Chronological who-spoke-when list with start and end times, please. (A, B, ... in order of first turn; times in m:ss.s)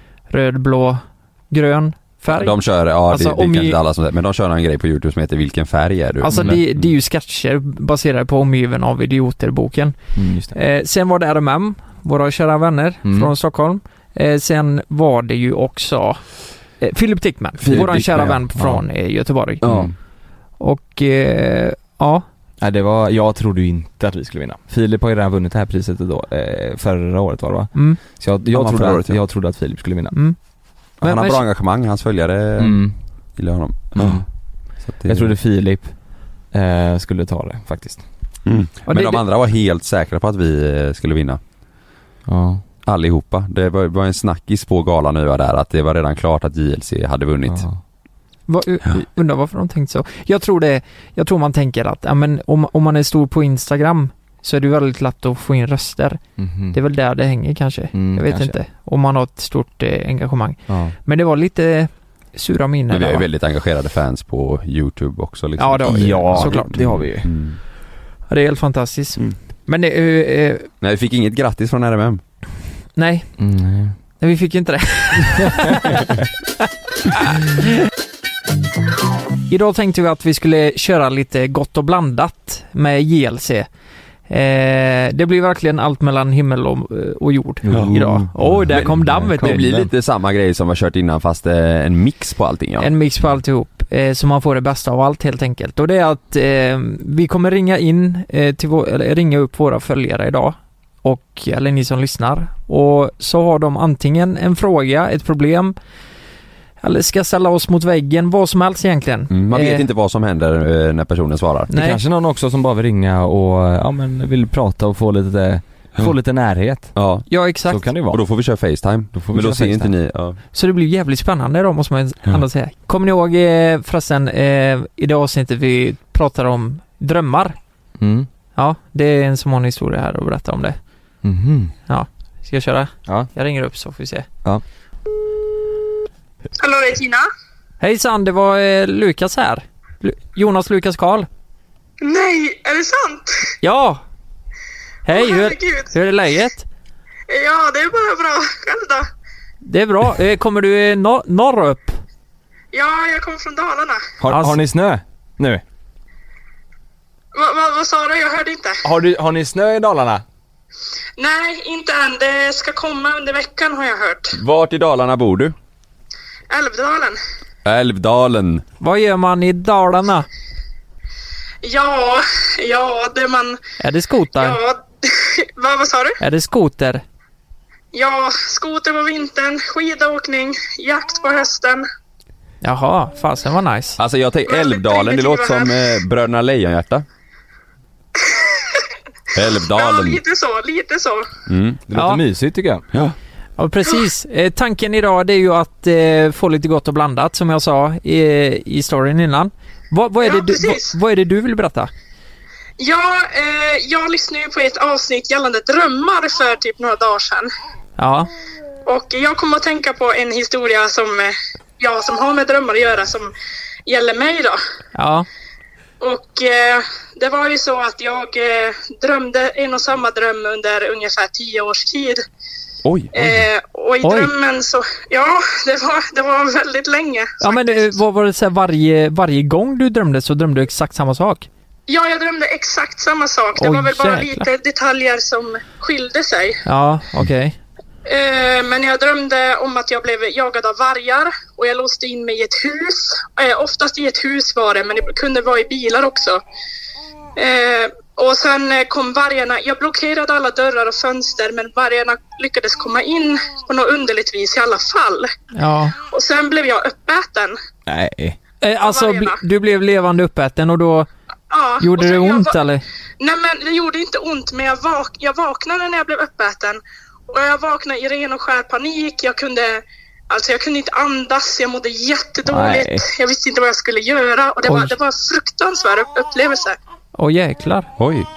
0:00.3-0:03.8 A
0:02.3-0:06.9 B
0:06.2-0:10.0 A
0:06.3-0:06.6 C
0:10.2-0:10.6 C
0:10.5-0:16.2 A
0:13.0-0:13.3 C
0:16.8-0:19.6 A
0:17.6-0:18.3 B
0:17.6-0:18.8 C
0:19.6-0:19.9 B
0:19.6-0:20.0 C
0:20.6-0:22.2 A
0:22.6-0:30.2 C
0:27.8-0:28.0 A
0:28.5-0:29.2 B
0:31.0-0:31.4 A
0:31.0-0:34.2 B
0:32.6-0:33.0 C
0:33.9-0:34.3 C
0:34.9-0:35.3 B
0:35.0-0:36.0 C
0:36.5-0:38.0 C
0:38.4-0:41.4 B
0:38.9-0:39.2 A
0:42.3-0:42.6 C
0:42.9-0:47.6 B
0:47.5-0:47.8 C
0:48.5-0:56.2 A
0:56.4-0:56.8 C
0:56.7-1:03.3 A
0:57.9-0:58.6 C
1:00.7-1:01.0 C
1:02.9-1:07.6 B
1:05.6-1:06.7 A
1:05.8-1:07.3 C
1:08.3-1:10.7 A
1:10.8-1:12.2 B
1:13.0-1:13.3 A
1:13.4-1:13.9 C
1:14.2-1:16.1 A
1:17.1-1:17.5 A
1:19.5-1:23.7 A
1:24.3-1:29.6 A
1:27.6-1:29.9 C
1:28.4-1:32.9 B
1:32.8-1:45.8 A
1:46.8-1:49.9 A
1:49.3-1:51.7 B
1:51.7-1:52.0 A
1:51.7-1:57.0 C
1:57.0-1:57.3 B
1:57.3-1:57.8 A
1:57.6-1:58.2 C
1:58.1-2:00.4 B
1:59.1-1:59.9 C
2:00.5-2:07.6 A
2:08.0-2:08.3 C
2:08.6-2:10.8 A
2:11.2-2:11.7 C
2:11.9-2:14.3 A
2:16.6-2:17.3 D
2:17.8-2:21.3 A
2:22.0-2:23.4 D
2:23.6-2:24.0 A
2:25.0-2:26.7 A
2:25.1-2:25.9 D
2:27.3-2:29.1 D
2:29.6-2:32.0 A
2:32.7-2:34.0 D
2:34.2-2:35.6 C
2:34.3-2:34.6 A
2:37.3-2:38.8 D
2:38.8-2:40.2 C
2:41.2-2:44.4 D
2:44.4-2:45.5 B
2:46.5-2:47.2 D
2:47.6-2:48.6 B
2:48.8-2:50.3 A
2:51.6-2:53.6 D
2:53.8-2:54.6 A
2:54.4-2:56.2 D
2:56.2-2:57.0 A
2:57.9-3:01.9 D
3:02.6-3:04.0 A
3:04.0-3:07.0 B
3:04.5-3:05.9 D
3:08.2-3:08.8 D
3:09.4-3:10.2 B
3:09.6-3:11.3 D
3:11.5-3:11.8 B
3:11.9-3:12.9 C
3:12.0-3:12.2 A
3:13.6-3:21.9 A
3:20.2-3:21.0 D
3:22.8-3:27.5 D
3:28.0-3:28.3 A
3:28.9-3:33.3 D
3:33.9-3:34.6 D
3:35.0-3:35.3 A
3:36.0-3:42.2 D
3:42.8-3:43.4 B
3:43.1-3:48.0 D
3:44.0-3:44.3 A
3:47.4-3:51.5 A
3:51.9-3:56.6 D
3:53.6-3:54.5 A
3:56.6-3:57.6 A
3:58.1-4:06.4 D
4:07.4-4:15.3 D
4:15.5-4:16.0 A
4:16.0-4:17.6 D
4:17.9-4:18.4 C
4:18.6-4:21.1 A
4:18.8-4:19.4 D
4:21.5-4:22.6 D
4:21.8-4:22.8 A
4:23.2-4:36.8 D
4:32.5-4:33.1 C
4:34.7-4:34.9 A
4:37.2-4:37.9 A
4:38.0-4:38.3 B